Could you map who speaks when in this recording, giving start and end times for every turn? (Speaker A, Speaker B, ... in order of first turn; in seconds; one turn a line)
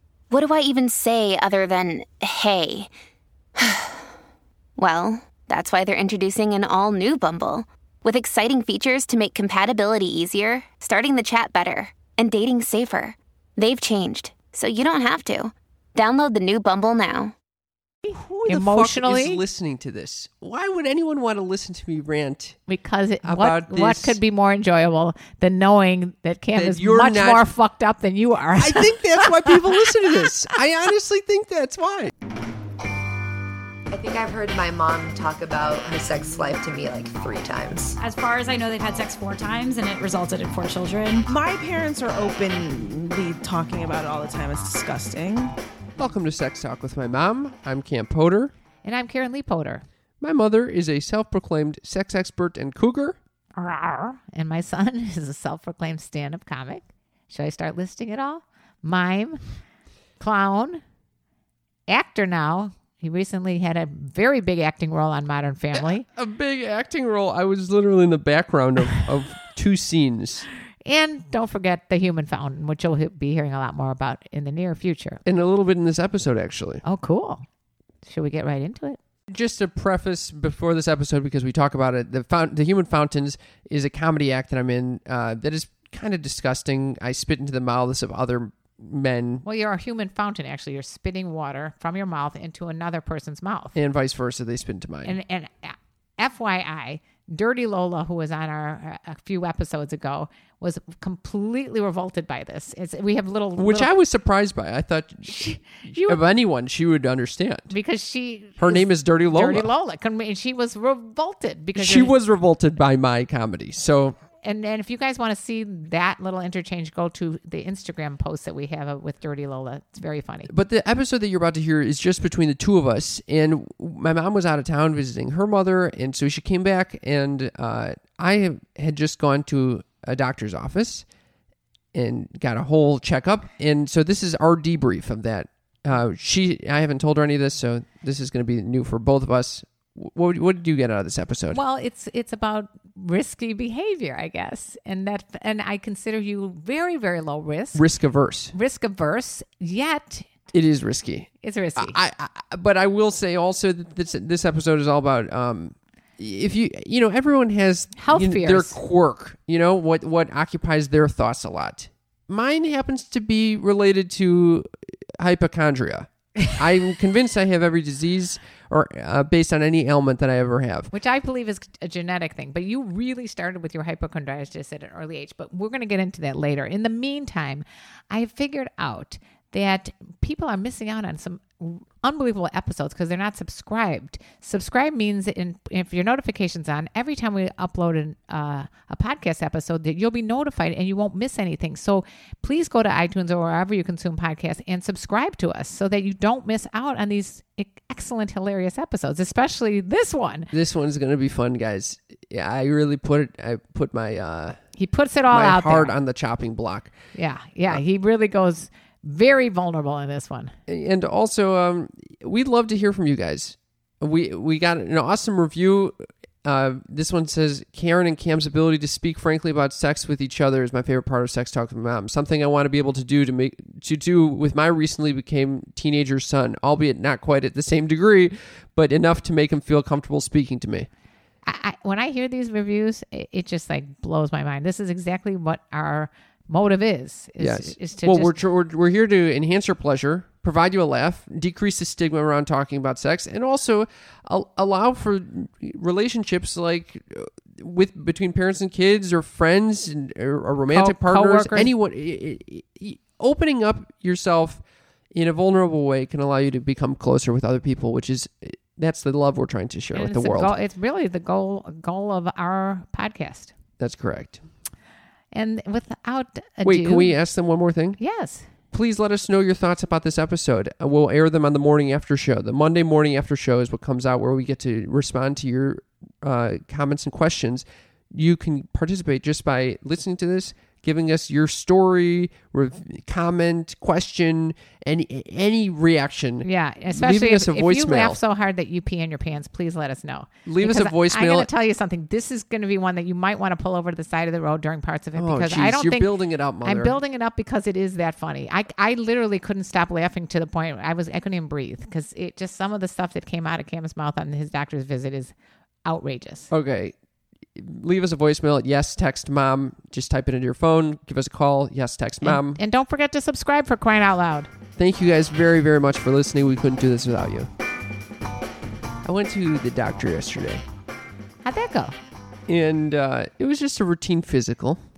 Speaker A: 0.3-2.9
Speaker A: 3.6-4.0
Speaker A: 4.8-17.3
Speaker B: 18.1-19.4
Speaker C: 18.1-22.6
Speaker B: 22.7-30.2
Speaker C: 23.2-24.2
Speaker C: 26.5-27.5
Speaker C: 28.6-32.1
Speaker D: 33.9-38.0
Speaker E: 38.0-41.3
Speaker F: 41.3-45.5
Speaker C: 46.0-48.5
Speaker B: 48.8-49.8
Speaker C: 50.2-53.2
Speaker B: 53.6-59.4
Speaker B: 60.2-60.8
Speaker B: 61.9-66.1
Speaker C: 65.7-70.5
Speaker B: 70.8-75.2
Speaker C: 75.2-76.8
Speaker B: 76.8-77.5
Speaker B: 78.0-79.0
Speaker C: 79.3-89.4
Speaker B: 89.5-93.8
Speaker C: 93.8-95.2
Speaker B: 95.0-103.9
Speaker C: 103.6-107.7
Speaker B: 105.3-106.2
Speaker B: 107.7-112.1
Speaker C: 108.6-109.7
Speaker C: 111.8-114.2
Speaker B: 114.4-120.5
Speaker C: 120.5-131.1
Speaker C: 131.9-141.6
Speaker B: 141.5-147.8
Speaker C: 147.8-148.5
Speaker B: 148.5-150.3
Speaker C: 150.5-164.7
Speaker B: 151.4-152.0
Speaker B: 158.0-158.8
Speaker C: 165.2-170.9
Speaker B: 170.9-200.5
Speaker C: 200.5-204.6
Speaker B: 204.8-205.9
Speaker C: 205.3-206.9
Speaker B: 207.2-210.6
Speaker C: 210.7-230.9
Speaker B: 231.4-238.4
Speaker C: 237.4-260.6
Speaker B: 250.7-251.7
Speaker B: 259.9-263.5
Speaker C: 263.8-264.4
Speaker B: 265.3-267.2
Speaker C: 266.6-268.0
Speaker B: 268.0-268.5
Speaker C: 268.7-288.2
Speaker B: 286.4-305.3
Speaker C: 290.5-291.5
Speaker C: 295.2-297.0
Speaker B: 305.9-306.5
Speaker C: 306.5-306.9
Speaker C: 307.5-312.6
Speaker B: 312.2-314.5
Speaker C: 314.8-317.5
Speaker C: 319.0-320.6
Speaker B: 321.4-321.9
Speaker C: 322.5-324.8